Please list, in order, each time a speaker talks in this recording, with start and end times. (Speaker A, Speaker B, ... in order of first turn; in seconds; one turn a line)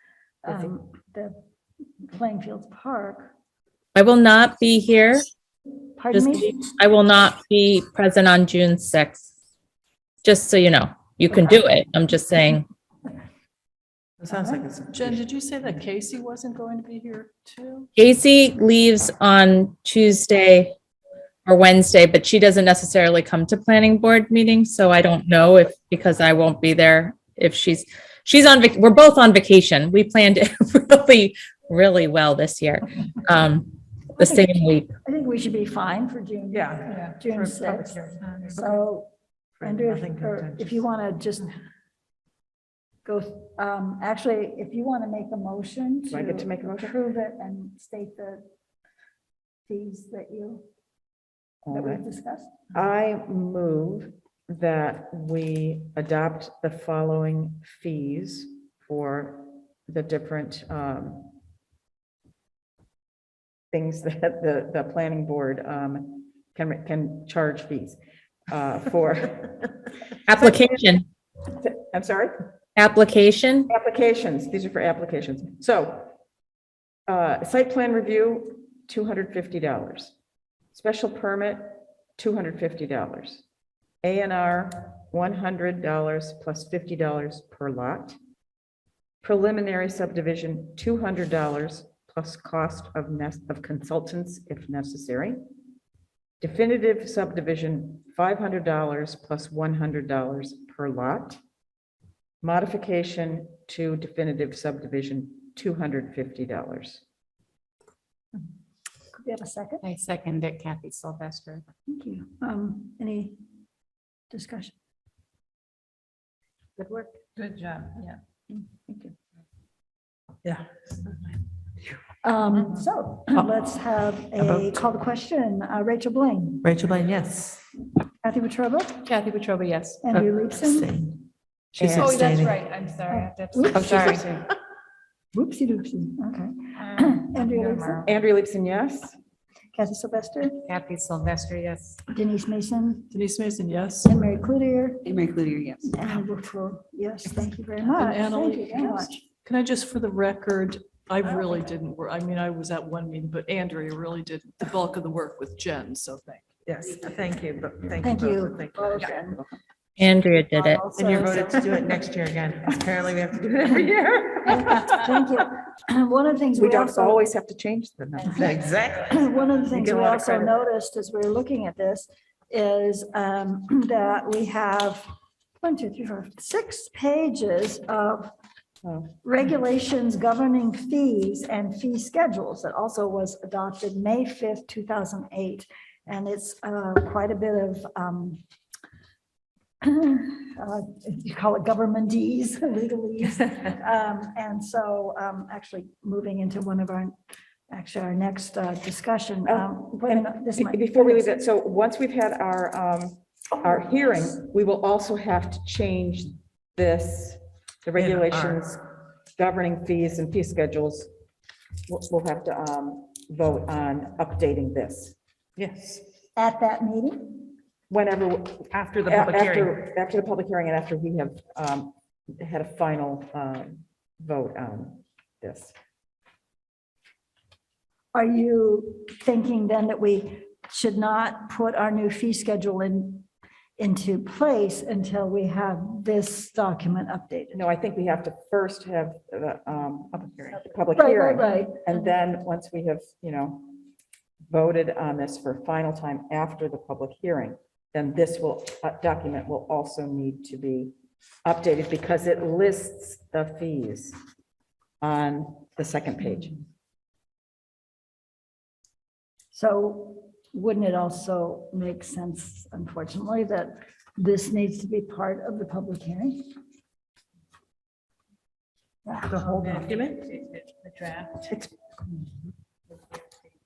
Speaker A: 0.4-1.4
Speaker A: 2.0-3.3
Speaker B: 3.9-5.3
Speaker A: 6.0-6.5
Speaker B: 6.1-9.3
Speaker B: 10.2-12.6
Speaker C: 14.2-15.2
Speaker D: 14.9-17.9
Speaker B: 18.0-20.7
Speaker B: 21.4-34.9
Speaker A: 34.2-39.1
Speaker C: 36.5-38.2
Speaker C: 39.6-40.8
Speaker A: 39.6-41.6
Speaker A: 43.0-48.4
Speaker E: 46.1-46.9
Speaker A: 49.6-50.6
Speaker E: 51.6-52.0
Speaker A: 51.7-52.6
Speaker E: 52.7-61.3
Speaker E: 63.7-69.7
Speaker B: 70.3-71.0
Speaker E: 71.6-72.4
Speaker B: 72.8-73.7
Speaker E: 73.7-76.1
Speaker E: 77.1-80.1
Speaker E: 80.7-83.4
Speaker E: 84.0-88.2
Speaker E: 89.2-95.4
Speaker E: 96.4-101.4
Speaker E: 102.4-107.0
Speaker A: 109.1-109.8
Speaker F: 109.8-111.6
Speaker A: 111.9-113.4
Speaker A: 114.3-114.7
Speaker F: 116.8-118.1
Speaker A: 122.2-126.7
Speaker C: 124.4-124.7
Speaker C: 126.6-127.6
Speaker A: 128.2-129.1
Speaker F: 129.1-130.0
Speaker A: 130.0-131.0
Speaker C: 130.7-131.1
Speaker E: 131.8-132.2
Speaker C: 131.8-132.6
Speaker F: 131.8-134.4
Speaker A: 133.1-134.1
Speaker C: 133.7-134.3
Speaker A: 135.3-138.1
Speaker F: 136.9-138.0
Speaker E: 138.0-139.2
Speaker A: 139.7-140.6
Speaker F: 140.6-142.0
Speaker A: 142.1-143.1
Speaker D: 143.1-144.2
Speaker A: 144.0-145.1
Speaker A: 145.8-149.2
Speaker D: 147.9-156.6
Speaker C: 156.7-159.1
Speaker A: 158.0-159.4
Speaker B: 160.0-160.9
Speaker C: 160.8-164.5
Speaker A: 163.9-167.2
Speaker E: 166.6-168.6
Speaker C: 168.3-169.3
Speaker A: 168.3-175.0
Speaker E: 169.7-170.5
Speaker A: 175.6-178.3
Speaker E: 178.8-179.1
Speaker A: 179.2-188.4
Speaker A: 189.8-197.1
Speaker A: 197.7-201.3
Speaker E: 199.4-208.8
Speaker C: 208.0-208.6
Speaker E: 209.4-211.1
Speaker E: 211.9-215.2
Speaker C: 215.6-216.0
Speaker A: 216.3-217.4
Speaker E: 217.9-225.7
Speaker C: 218.8-219.7
Speaker A: 228.1-233.3
Speaker A: 233.8-237.6
Speaker E: 237.5-243.7
Speaker A: 240.9-241.9
Speaker E: 244.5-250.9
Speaker E: 251.4-254.2
Speaker E: 255.0-256.6
Speaker A: 259.5-266.5
Speaker A: 269.1-269.6
Speaker C: 269.3-270.1